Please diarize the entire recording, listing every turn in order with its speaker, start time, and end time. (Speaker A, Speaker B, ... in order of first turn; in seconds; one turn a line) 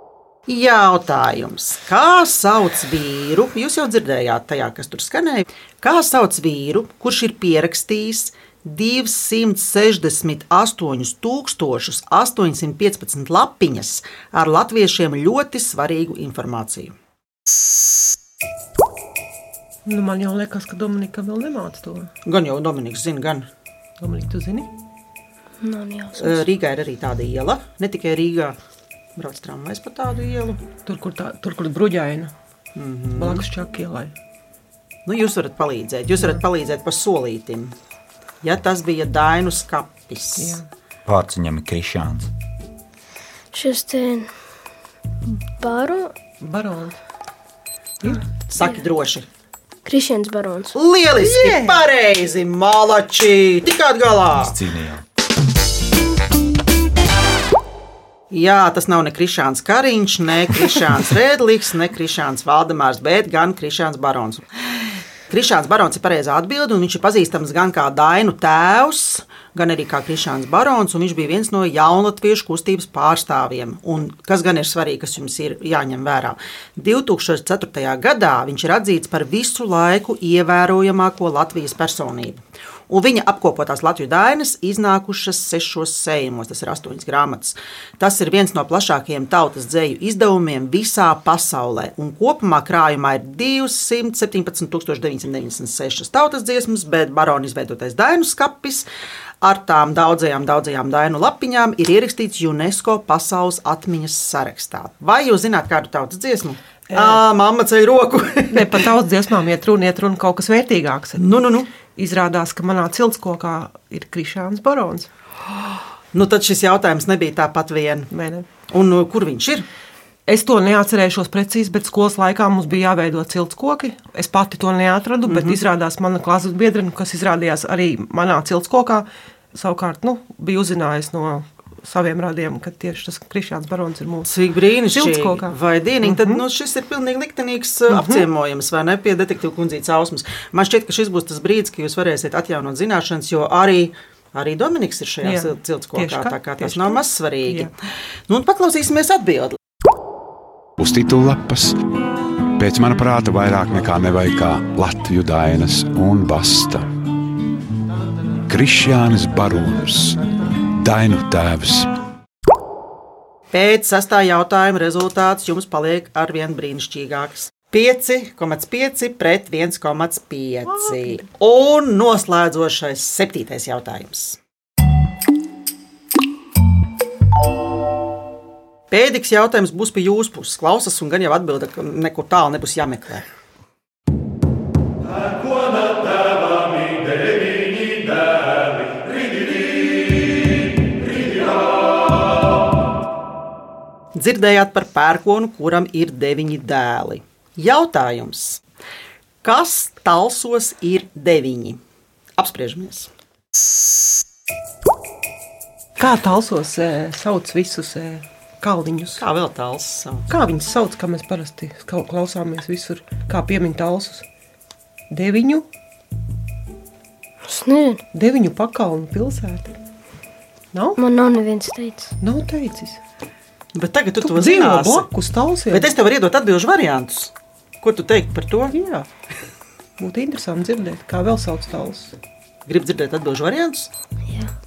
Speaker A: 0.5-16.9
Speaker B: 19.9-22.1
Speaker A: 22.2-23.5
Speaker B: 24.0-24.7
Speaker C: 25.6-26.4
Speaker A: 26.2-28.6
Speaker A: 29.1-30.6
Speaker B: 30.8-32.3
Speaker A: 32.8-33.5
Speaker B: 33.1-34.1
Speaker A: 35.0-37.8
Speaker A: 38.4-40.6
Speaker B: 40.4-40.7
Speaker D: 41.0-42.3
Speaker C: 43.5-44.3
Speaker C: 45.6-46.1
Speaker B: 46.4-47.0
Speaker A: 48.5-49.3
Speaker C: 49.8-50.7
Speaker A: 50.7-54.5
Speaker B: 51.1-51.8
Speaker D: 54.3-55.0
Speaker A: 58.3-64.4
Speaker A: 65.3-98.9
Speaker A: 99.4-108.8
Speaker B: 106.9-107.2
Speaker B: 108.5-111.2
Speaker A: 111.2-111.7
Speaker B: 111.9-115.1
Speaker A: 116.1-118.1
Speaker B: 118.1-118.5
Speaker A: 118.7-119.7
Speaker B: 120.3-134.3
Speaker A: 125.2-125.6
Speaker A: 134.2-147.7
Speaker B: 134.9-136.4
Speaker B: 137.9-138.2
Speaker B: 145.2-147.7
Speaker A: 148.3-149.6
Speaker E: 150.8-151.8
Speaker E: 152.6-156.9
Speaker E: 158.5-160.2
Speaker E: 160.7-161.9
Speaker A: 163.5-174.4
Speaker B: 170.7-171.2
Speaker A: 178.9-183.2
Speaker A: 194.1-198.6
Speaker A: 199.4-201.8
Speaker A: 202.4-203.1
Speaker B: 206.0-209.2
Speaker A: 209.2-210.2
Speaker B: 210.3-214.2
Speaker B: 215.1-215.7
Speaker C: 217.4-218.0
Speaker B: 218.1-219.7
Speaker B: 220.7-221.0
Speaker C: 221.0-222.1
Speaker B: 222.2-223.0
Speaker A: 223.7-225.1
Speaker B: 224.2-225.9
Speaker A: 225.7-228.8
Speaker B: 228.7-229.1
Speaker B: 230.0-232.1
Speaker A: 232.7-233.9